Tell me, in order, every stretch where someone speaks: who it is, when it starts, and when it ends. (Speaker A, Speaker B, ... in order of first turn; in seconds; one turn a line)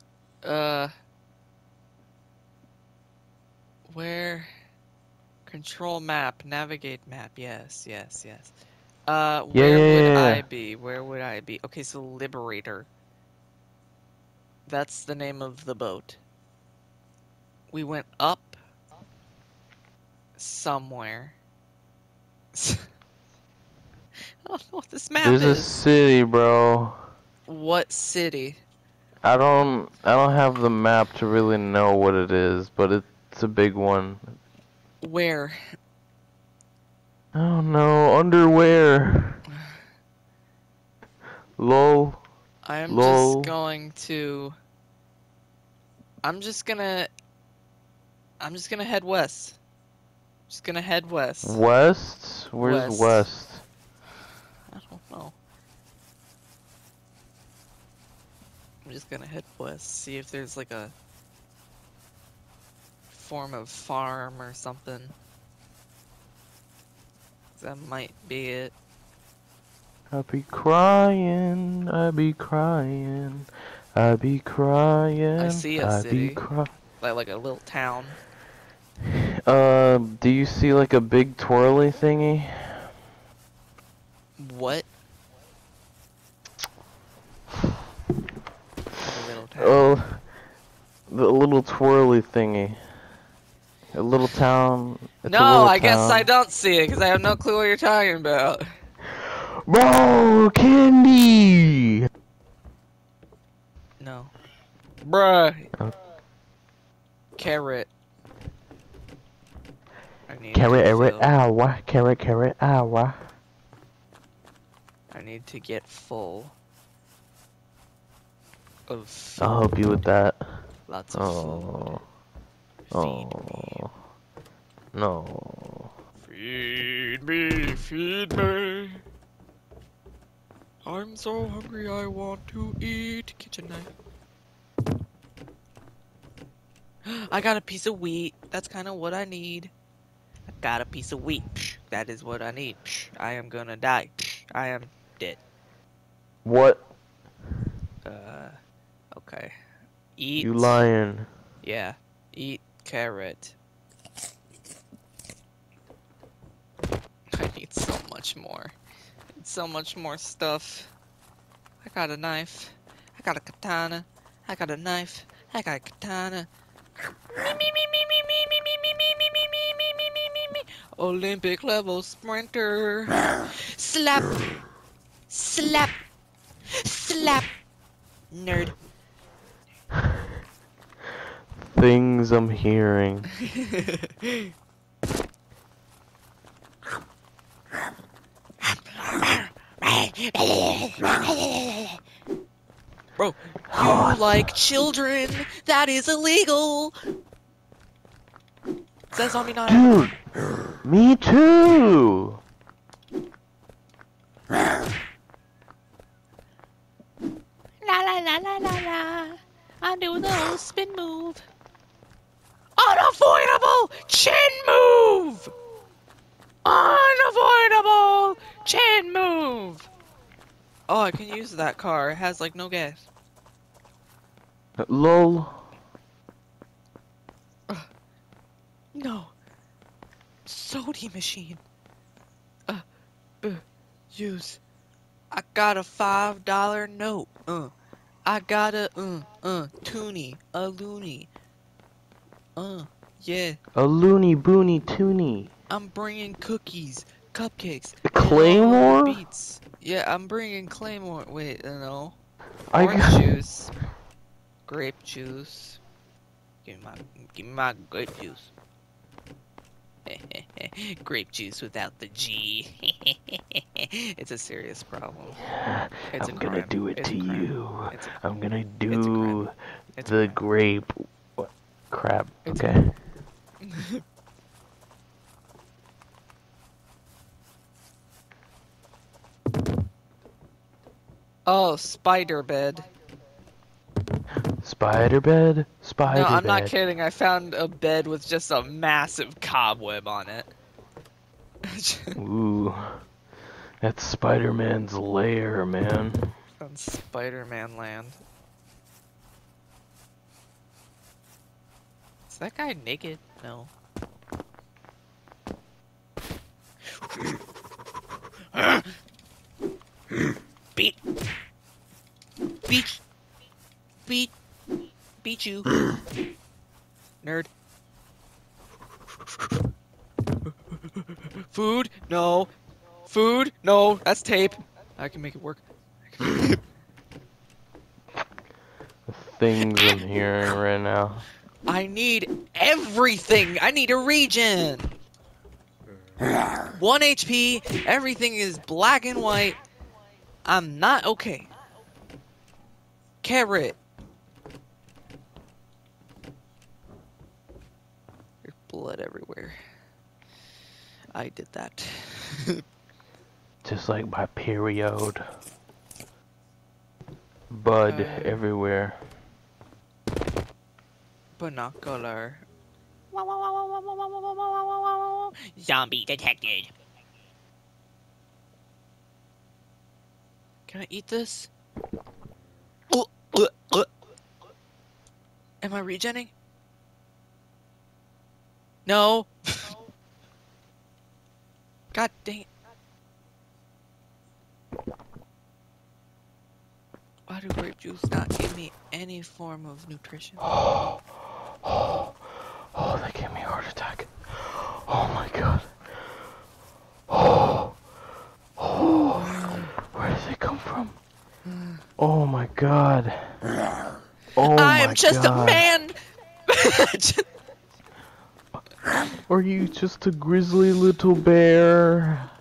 Speaker A: 0.4-0.9
Speaker A: 3.9-4.5
Speaker A: 5.5-8.5
Speaker A: 9.1-12.9
Speaker B: 9.5-10.4
Speaker A: 14.7-16.2
Speaker A: 17.7-18.6
Speaker A: 20.4-21.3
Speaker A: 22.5-22.9
Speaker A: 24.4-25.8
Speaker B: 25.2-27.0
Speaker A: 27.5-28.6
Speaker B: 29.2-34.2
Speaker A: 35.0-35.6
Speaker B: 37.3-39.4
Speaker B: 41.6-42.2
Speaker A: 42.6-44.5
Speaker B: 42.9-43.5
Speaker A: 46.2-47.1
Speaker A: 48.4-49.6
Speaker A: 50.5-51.6
Speaker B: 51.4-53.6
Speaker A: 52.6-53.3
Speaker A: 54.7-55.4
Speaker A: 58.8-60.9
Speaker A: 63.1-65.1
Speaker A: 67.6-68.7
Speaker B: 70.1-76.7
Speaker A: 75.4-76.4
Speaker A: 77.0-78.2
Speaker B: 79.1-82.8
Speaker A: 84.4-84.9
Speaker A: 89.0-89.9
Speaker B: 89.6-90.2
Speaker B: 91.1-92.8
Speaker B: 93.9-96.3
Speaker A: 95.2-98.7
Speaker B: 99.2-102.1
Speaker A: 104.0-104.3
Speaker A: 105.0-105.7
Speaker A: 107.3-107.9
Speaker A: 110.3-111.3
Speaker B: 110.5-113.2
Speaker A: 115.1-116.5
Speaker A: 118.9-119.5
Speaker B: 119.4-120.4
Speaker A: 120.9-121.9
Speaker B: 121.1-122.0
Speaker A: 122.9-123.8
Speaker B: 122.9-123.9
Speaker B: 124.9-125.9
Speaker A: 126.2-129.0
Speaker A: 130.8-133.9
Speaker A: 137.0-139.7
Speaker A: 140.5-145.4
Speaker B: 146.4-146.8
Speaker A: 148.0-148.6
Speaker A: 149.1-149.5
Speaker A: 150.2-150.7
Speaker B: 150.4-151.3
Speaker A: 151.6-153.5
Speaker A: 157.3-158.7
Speaker A: 159.3-160.9
Speaker A: 161.8-166.5
Speaker A: 167.3-174.6
Speaker A: 175.3-175.9
Speaker A: 176.7-177.5
Speaker A: 178.3-178.7
Speaker B: 181.7-183.3
Speaker A: 183.4-184.5
Speaker A: 188.7-192.0
Speaker A: 193.2-196.9
Speaker B: 193.7-194.5
Speaker A: 199.1-199.9
Speaker B: 199.7-200.2
Speaker B: 200.8-202.4
Speaker C: 207.8-211.4
Speaker A: 212.8-215.5
Speaker A: 216.6-219.8
Speaker A: 220.9-223.1
Speaker B: 224.8-225.6
Speaker A: 228.9-229.3
Speaker A: 230.4-231.6
Speaker A: 233.4-234.6
Speaker A: 235.3-237.7
Speaker A: 238.2-241.3
Speaker A: 242.6-243.6
Speaker B: 243.8-245.5
Speaker A: 245.7-252.2
Speaker B: 248.0-249.2
Speaker B: 252.7-253.2
Speaker A: 252.7-253.7
Speaker A: 254.7-255.8
Speaker A: 256.6-258.5
Speaker A: 260.1-265.4
Speaker B: 265.4-272.9
Speaker A: 266.1-268.2
Speaker A: 268.9-269.4
Speaker A: 269.9-270.4
Speaker A: 272.4-272.7
Speaker A: 273.6-274.0
Speaker A: 281.4-282.9
Speaker B: 284.6-286.7
Speaker A: 286.1-290.5
Speaker A: 291.6-292.2
Speaker B: 292.1-292.9
Speaker B: 293.8-296.3
Speaker A: 296.6-298.2
Speaker A: 302.3-303.7
Speaker A: 307.0-307.3
Speaker A: 308.5-308.9
Speaker A: 312.7-313.0
Speaker A: 314.1-314.3
Speaker A: 315.2-315.7
Speaker A: 317.2-317.5
Speaker A: 320.7-322.5
Speaker A: 323.1-326.6
Speaker B: 329.1-331.2
Speaker A: 331.6-334.9
Speaker A: 336.7-339.6
Speaker A: 340.4-341.5
Speaker A: 343.2-343.8
Speaker A: 348.4-349.6
Speaker A: 351.1-352.6
Speaker B: 353.6-355.2
Speaker B: 357.5-359.0
Speaker A: 357.9-358.4
Speaker A: 361.4-362.4
Speaker C: 363.1-364.2
Speaker A: 363.2-366.7
Speaker A: 370.7-371.5
Speaker A: 372.9-373.9
Speaker A: 375.6-376.3
Speaker A: 378.9-379.8
Speaker A: 381.9-382.5
Speaker A: 387.3-390.4
Speaker B: 390.5-391.0
Speaker B: 391.6-392.1
Speaker B: 392.7-395.7
Speaker B: 397.1-397.7
Speaker B: 398.6-401.0
Speaker A: 399.2-399.7
Speaker A: 401.4-401.8
Speaker B: 402.0-403.4
Speaker B: 404.4-405.6
Speaker A: 404.4-407.3
Speaker B: 409.3-412.3